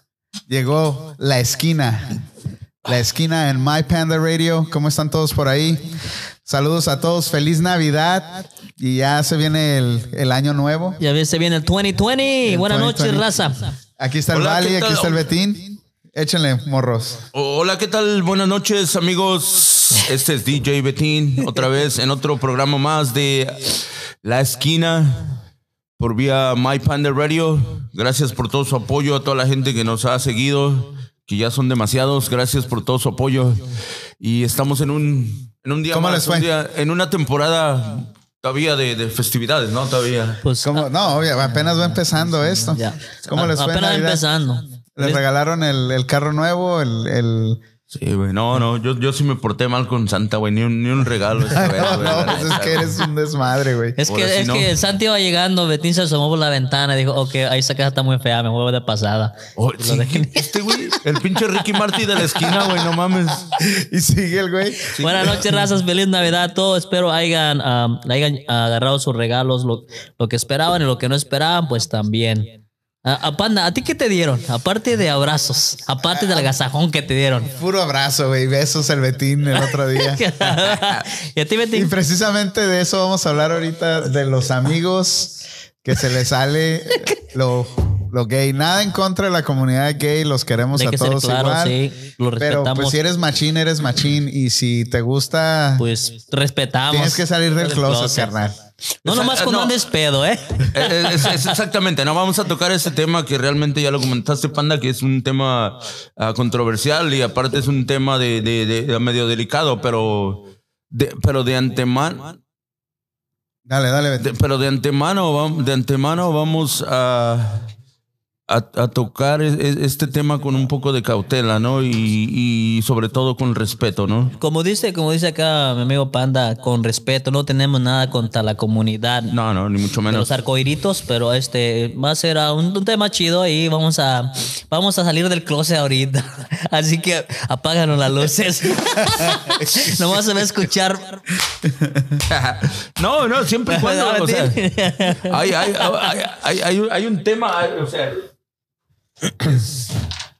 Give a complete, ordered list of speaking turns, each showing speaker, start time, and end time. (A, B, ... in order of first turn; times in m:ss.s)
0:00.5-0:02.2 A
0:02.8-0:11.0 A
0:11.0-0:13.7 B
0:12.4-0:13.4 A
0:14.0-0:17.2 A
0:14.3-0:15.3 C
0:17.3-0:25.4 C
0:26.0-0:40.4 C
0:35.9-0:36.5 A
0:40.4-0:40.8 B
0:40.6-0:44.2 A
0:42.6-0:45.2 B
0:45.0-0:47.6 A
0:47.9-0:53.0 C
0:51.5-0:54.0 A
0:54.0-1:00.5 B
0:54.1-0:54.7 C
0:59.6-1:03.5 C
1:03.5-1:05.3 A
1:04.9-1:05.4 C
1:05.0-1:17.5 B
1:16.1-1:16.5 A
1:17.5-1:20.2 A
1:19.6-1:21.9 B
1:21.7-1:31.8 A
1:30.7-1:33.0 B
1:32.4-1:35.8 A
1:35.8-1:38.3 B
1:36.9-1:38.6 A
1:39.0-1:41.5 B
1:39.0-1:39.8 C
1:40.7-1:52.4 C
1:53.7-1:54.3 A
1:54.2-1:57.7 C
1:58.5-2:04.3 C
2:04.4-2:09.4 B
2:09.3-2:10.3 C
2:10.1-2:21.2 B
2:19.2-2:20.0 A
2:21.6-2:22.2 A
2:22.3-2:24.6 C
2:23.7-2:26.1 B
2:25.2-2:28.2 C